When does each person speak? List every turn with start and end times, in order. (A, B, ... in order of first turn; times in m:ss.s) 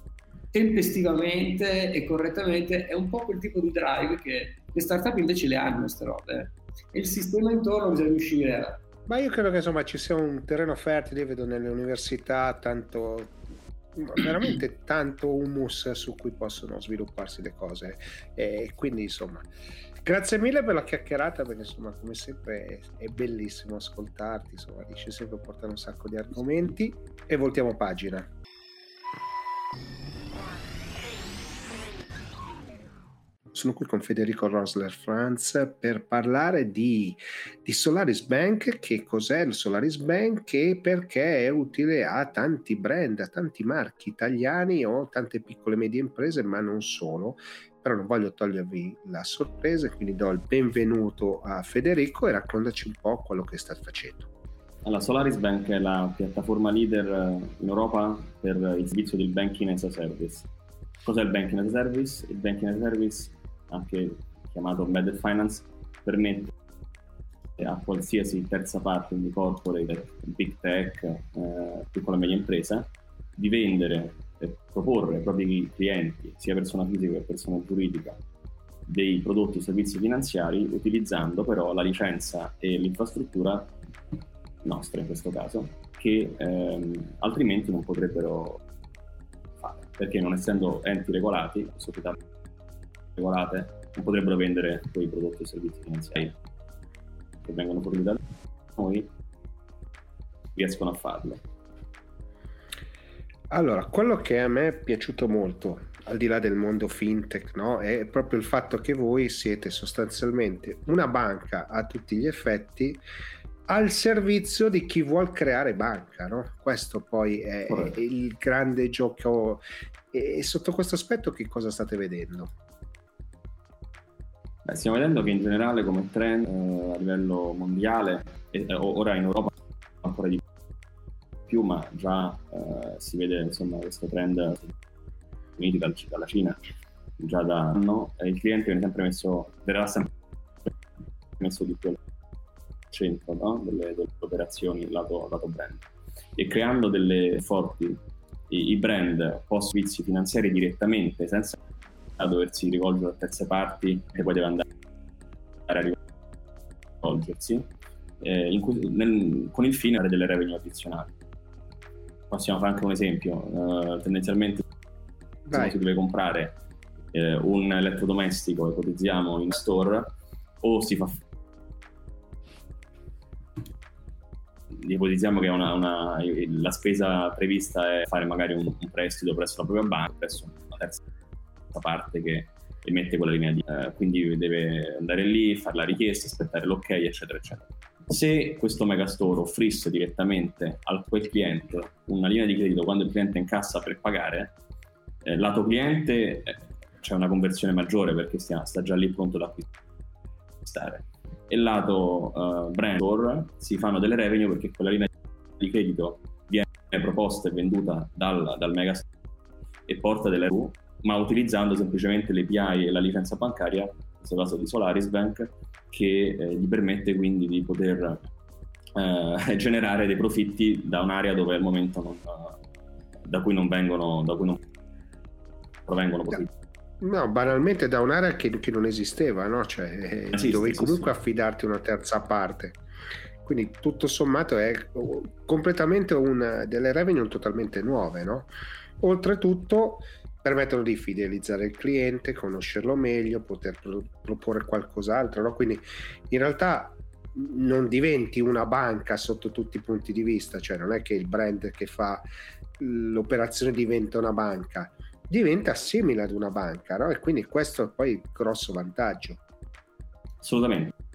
0:00.5-0:08.8 A
0:09.1-0:13.4 B
0:14.0-0:19.4 B
0:20.0-0:28.3 B
0:33.5-0:54.3 B
0:54.8-1:00.5 C
1:01.0-1:06.5 C
1:07.6-1:18.2 C
1:18.9-1:23.7 C
1:24.6-1:28.6 C
1:29.6-1:32.2 C
1:33.2-1:36.4 C
1:37.4-1:38.2 C
1:38.8-1:39.1 C
1:40.5-1:41.4 C
1:43.5-1:53.0 B
1:53.7-2:02.5 B
2:04.6-2:10.4 C
2:11.5-2:14.7 C
2:15.6-2:16.6 C
2:17.2-2:20.1 C
2:21.4-2:22.0 C
2:22.9-2:25.8 C
2:26.4-2:31.6 C
2:32.2-2:34.6 C
2:35.6-2:36.0 C
2:37.0-2:37.7 C
2:38.2-2:41.1 C
2:42.3-2:44.6 C
2:45.5-2:45.7 B
2:45.5-2:46.6 C
2:47.1-2:51.2 C
2:54.7-3:01.0 C
3:01.7-3:14.6 C
3:15.2-3:19.7 C
3:20.6-3:29.0 C
3:29.9-3:38.3 C
3:38.9-3:42.6 C
3:43.2-3:44.6 C
3:45.9-3:46.5 C
3:47.0-3:52.8 B
3:50.3-3:51.1 C
3:53.4-3:58.5 B
3:59.0-4:12.2 B
4:12.8-4:19.4 B
4:20.4-4:20.9 C